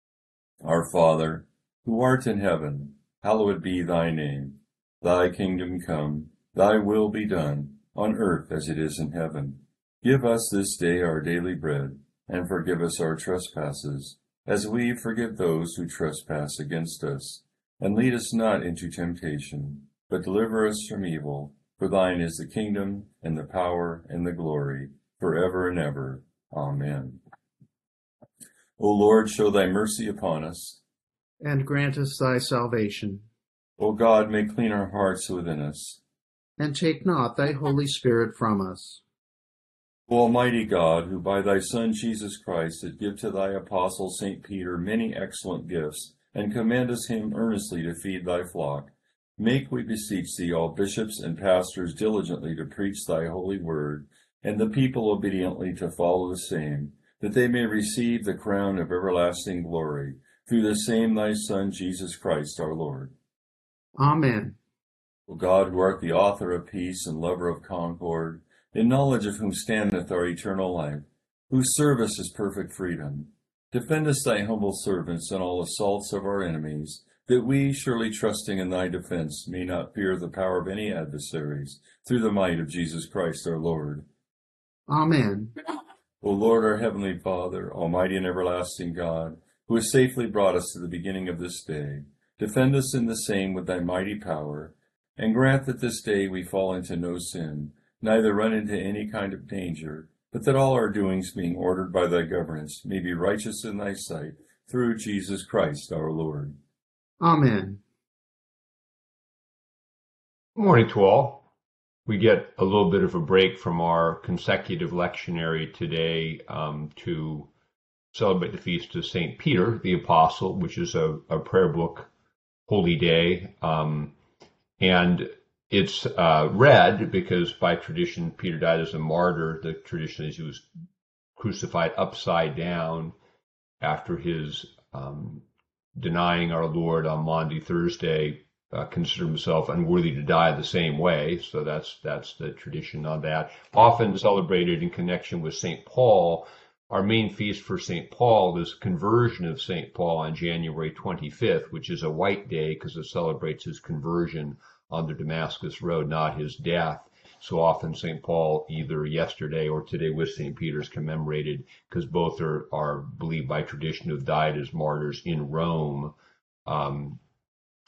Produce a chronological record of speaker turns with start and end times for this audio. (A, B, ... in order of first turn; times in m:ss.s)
0:00.6-0:27.2 A
0:28.8-0:30.8 A
0:31.4-0:33.2 B
0:33.8-0:36.0 A
0:36.6-0:39.0 B
0:40.1-1:03.1 A
1:04.0-1:04.6 B
1:05.3-1:24.0 A
1:24.9-1:25.5 B
1:26.2-1:46.6 A
1:47.2-1:47.8 B
1:50.6-1:51.4 C
1:52.1-1:57.5 C
1:58.1-2:02.1 C
2:02.7-2:04.1 C
2:04.8-2:10.7 C
2:11.4-2:13.2 C
2:13.8-2:15.4 C
2:16.0-2:46.1 C
2:46.7-2:47.2 C